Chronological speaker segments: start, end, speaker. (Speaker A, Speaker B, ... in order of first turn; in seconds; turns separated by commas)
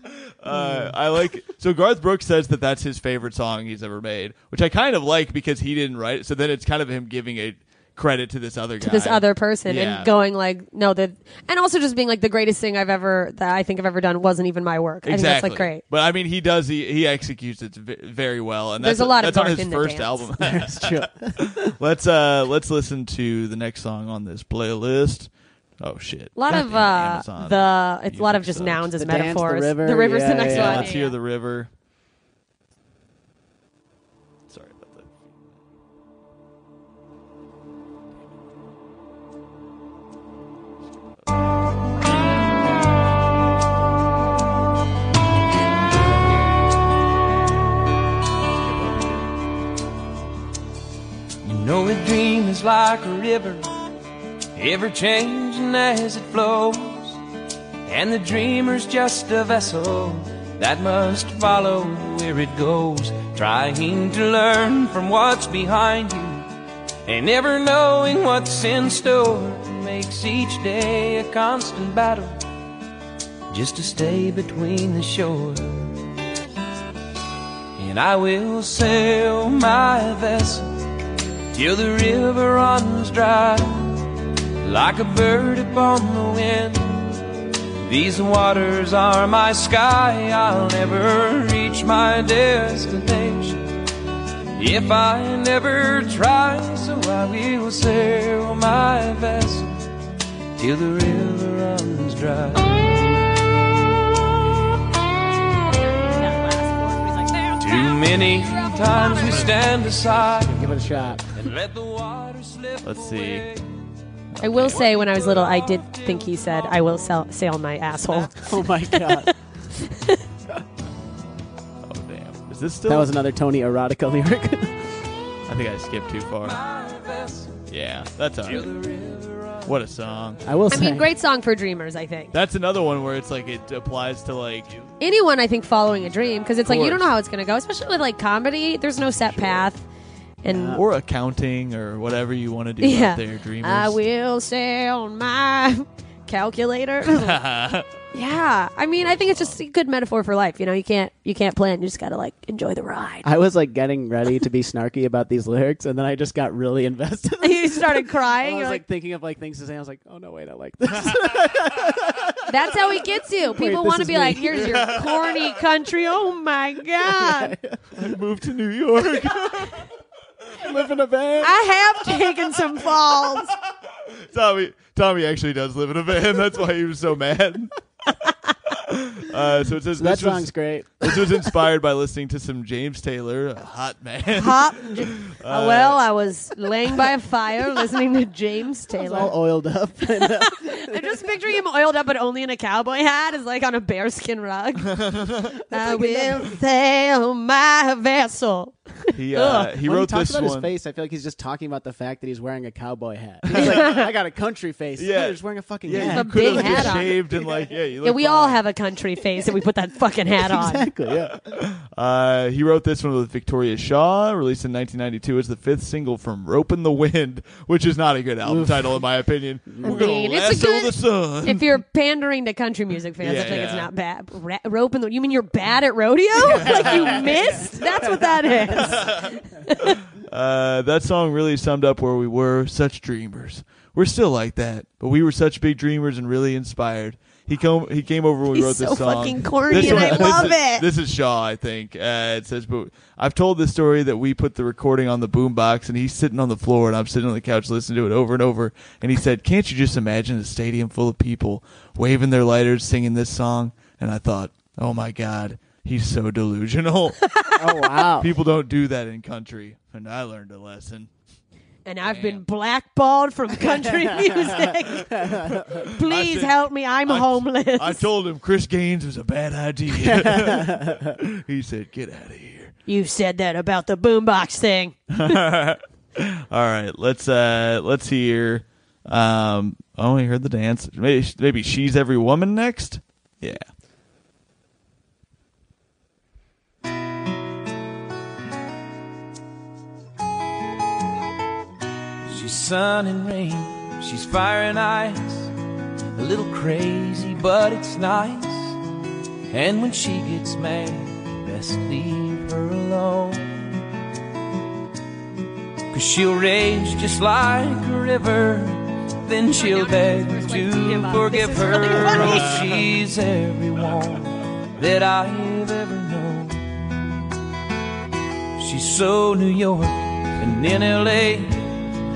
Speaker A: 0.4-10.1, Speaker B: 0.5-0.9, Speaker C: 8.8-15.8, Speaker A: 15.0-28.9, Speaker C: 18.8-20.3, Speaker B: 20.4-21.7, Speaker C: 26.4-31.1, Speaker B: 28.9-30.9, Speaker A: 30.4-31.7, Speaker A: 34.5-35.1, Speaker A: 48.6-49.2, Speaker D: 51.4-53.7, Speaker D: 54.5-57.2, Speaker D: 57.9-66.5, Speaker D: 67.0-72.4, Speaker D: 73.5-76.0, Speaker D: 77.8-80.7, Speaker D: 81.5-84.1, Speaker D: 84.6-87.0, Speaker D: 87.8-93.7, Speaker D: 94.5-99.8, Speaker D: 100.5-103.0, Speaker C: 105.7-109.6, Speaker D: 107.6-110.7, Speaker B: 110.3-111.2, Speaker A: 110.7-111.1, Speaker D: 111.3-113.8, Speaker A: 112.8-113.5, Speaker A: 114.3-114.8, Speaker C: 114.4-120.2, Speaker D: 114.7-116.8, Speaker B: 118.4-119.3, Speaker A: 121.8-123.1, Speaker B: 122.9-124.9, Speaker A: 125.5-126.6, Speaker D: 126.4-127.6, Speaker A: 127.7-128.7, Speaker D: 128.4-129.8, Speaker A: 129.6-130.4, Speaker B: 130.4-131.1, Speaker C: 130.7-132.3, Speaker A: 132.3-134.7, Speaker C: 135.0-139.8, Speaker A: 136.7-137.0, Speaker A: 139.2-139.7, Speaker C: 140.4-140.8, Speaker B: 140.5-140.8, Speaker A: 140.7-144.0, Speaker C: 142.8-147.4, Speaker A: 147.1-147.9, Speaker C: 148.1-153.3, Speaker A: 149.0-149.5, Speaker B: 153.2-165.0, Speaker C: 157.4-158.8, Speaker C: 162.5-167.5, Speaker A: 164.6-165.4, Speaker B: 167.0-167.8, Speaker A: 167.9-169.8, Speaker B: 170.6-171.6, Speaker C: 171.4-173.5, Speaker A: 174.3-177.7, Speaker A: 178.7-186.0, Speaker B: 179.9-181.5, Speaker C: 184.3-189.3, Speaker B: 188.9-191.3, Speaker C: 190.0-195.0, Speaker A: 194.8-195.6, Speaker C: 195.7-199.7, Speaker B: 195.7-196.5, Speaker A: 199.1-200.7, Speaker B: 199.8-207.2, Speaker A: 203.5-204.0, Speaker C: 203.5-204.1, Speaker A: 205.0-208.6, Speaker C: 206.0-207.2, Speaker C: 208.0-210.8, Speaker B: 210.4-211.3, Speaker A: 211.3-221.7, Speaker B: 218.4-219.0, Speaker B: 219.7-220.1, Speaker C: 219.8-230.0, Speaker A: 223.2-223.9, Speaker B: 226.3-229.1, Speaker A: 226.6-227.2, Speaker A: 228.8-257.2, Speaker C: 238.5-240.8, Speaker B: 239.7-240.4, Speaker C: 257.3-258.0, Speaker B: 257.6-258.3, Speaker A: 258.2-261.1, Speaker C: 261.9-265.3, Speaker A: 262.0-262.4, Speaker B: 263.8-265.8, Speaker A: 265.7-272.7, Speaker C: 265.9-268.1, Speaker B: 269.9-271.2, Speaker C: 272.9-275.3, Speaker A: 275.1-283.6, Speaker D: 292.3-295.5, Speaker D: 296.1-298.8, Speaker D: 299.5-303.6, Speaker D: 305.9-316.9, Speaker C: 309.5-312.6, Speaker A: 312.2-312.7, Speaker D: 318.6-321.6